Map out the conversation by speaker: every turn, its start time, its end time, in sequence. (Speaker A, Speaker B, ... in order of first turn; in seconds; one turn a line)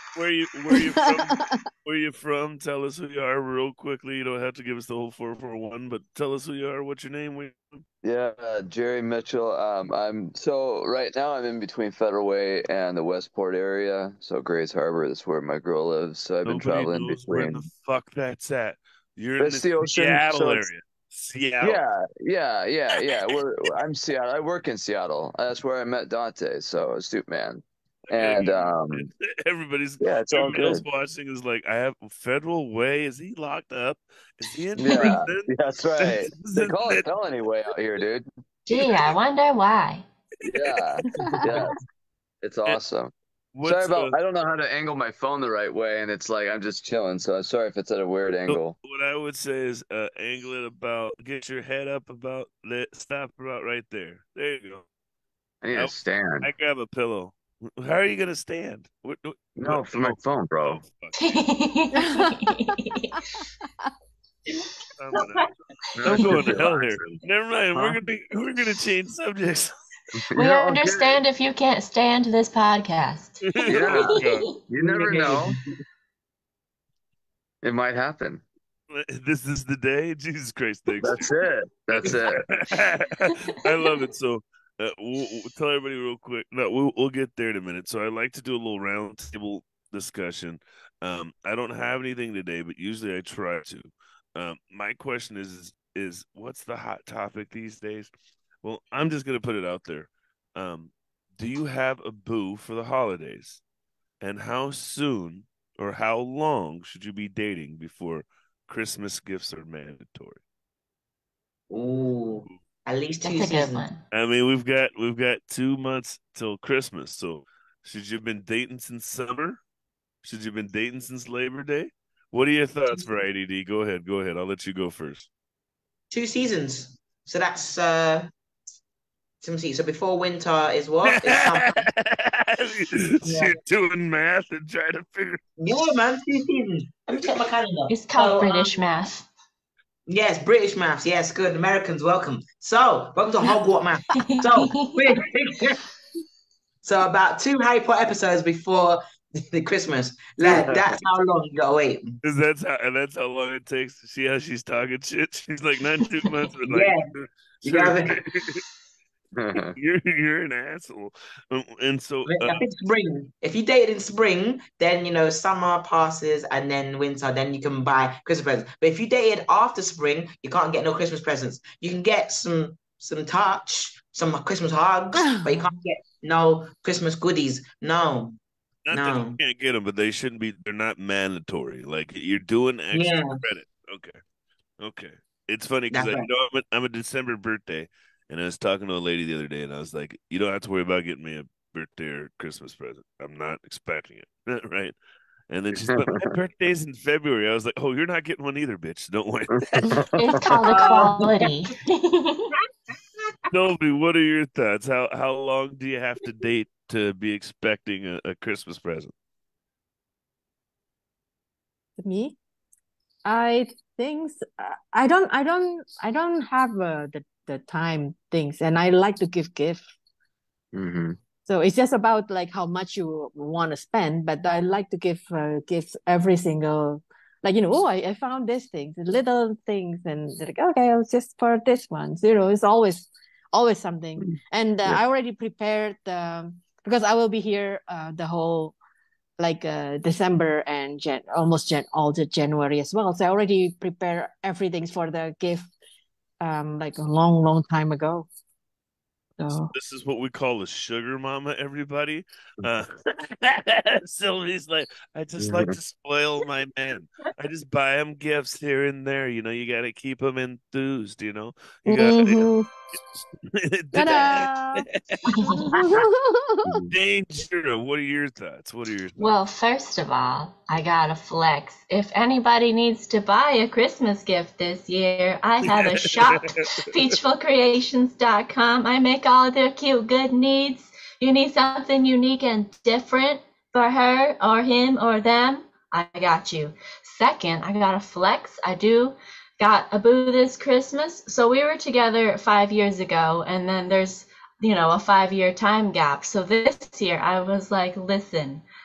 Speaker A: 0.1-7.8
Speaker B: 0.7-1.7
Speaker C: 8.0-17.6
Speaker A: 16.5-21.8
Speaker C: 19.4-20.7
Speaker C: 21.6-29.1
Speaker A: 23.0-23.4
Speaker A: 28.2-37.1
Speaker C: 30.0-30.8
Speaker C: 34.8-38.2
Speaker D: 38.7-40.0
Speaker A: 38.7-39.1
Speaker A: 40.4-41.6
Speaker C: 40.5-41.8
Speaker B: 41.1-41.8
Speaker C: 42.4-48.8
Speaker A: 43.5-44.2
Speaker A: 48.5-54.9
Speaker C: 55.6-56.5
Speaker A: 55.8-61.4
Speaker C: 59.6-60.8
Speaker D: 61.2-63.2
Speaker B: 61.9-62.8
Speaker A: 65.0-65.5
Speaker E: 65.1-65.5
Speaker C: 65.9-67.2
Speaker A: 66.0-69.7
Speaker C: 67.7-68.0
Speaker C: 70.2-71.2
Speaker D: 70.4-74.5
Speaker A: 73.5-74.5
Speaker C: 73.7-75.6
Speaker E: 74.8-75.8
Speaker C: 77.6-78.4
Speaker A: 78.9-81.3
Speaker C: 81.0-82.5
Speaker A: 81.9-98.1
Speaker A: 98.6-103.6
Speaker A: 104.2-110.4
Speaker E: 111.7-113.8
Speaker D: 113.2-114.0
Speaker A: 114.1-119.6
Speaker A: 120.2-125.3
Speaker E: 126.1-128.3
Speaker E: 129.4-131.8
Speaker A: 131.1-135.9
Speaker E: 133.3-133.6
Speaker E: 135.6-138.7
Speaker D: 137.9-139.3
Speaker E: 140.1-145.8
Speaker D: 144.2-145.0
Speaker E: 146.8-149.0
Speaker E: 149.5-152.2
Speaker C: 150.4-151.0
Speaker A: 152.2-158.6
Speaker E: 156.7-157.1
Speaker E: 157.7-158.2
Speaker C: 159.3-159.8
Speaker A: 159.6-162.7
Speaker E: 162.3-178.4
Speaker B: 175.2-175.7
Speaker A: 178.9-184.2
Speaker E: 178.9-179.4
Speaker E: 182.9-183.4
Speaker A: 184.8-194.9
Speaker E: 185.9-186.3
Speaker A: 195.5-200.1
Speaker C: 195.8-196.3
Speaker C: 199.6-200.6
Speaker D: 200.1-202.5
Speaker E: 200.7-201.4
Speaker A: 203.5-209.1
Speaker B: 212.0-212.4
Speaker B: 213.2-219.9
Speaker C: 220.7-221.2
Speaker B: 221.4-238.8
Speaker B: 239.4-245.7
Speaker B: 246.4-248.3
Speaker B: 249.4-249.7
Speaker A: 249.7-265.2
Speaker C: 255.4-255.7
Speaker B: 261.9-262.7
Speaker B: 263.9-264.9
Speaker D: 265.3-265.8
Speaker B: 265.5-266.9
Speaker A: 266.9-269.4
Speaker D: 269.2-298.6
Speaker A: 275.6-276.4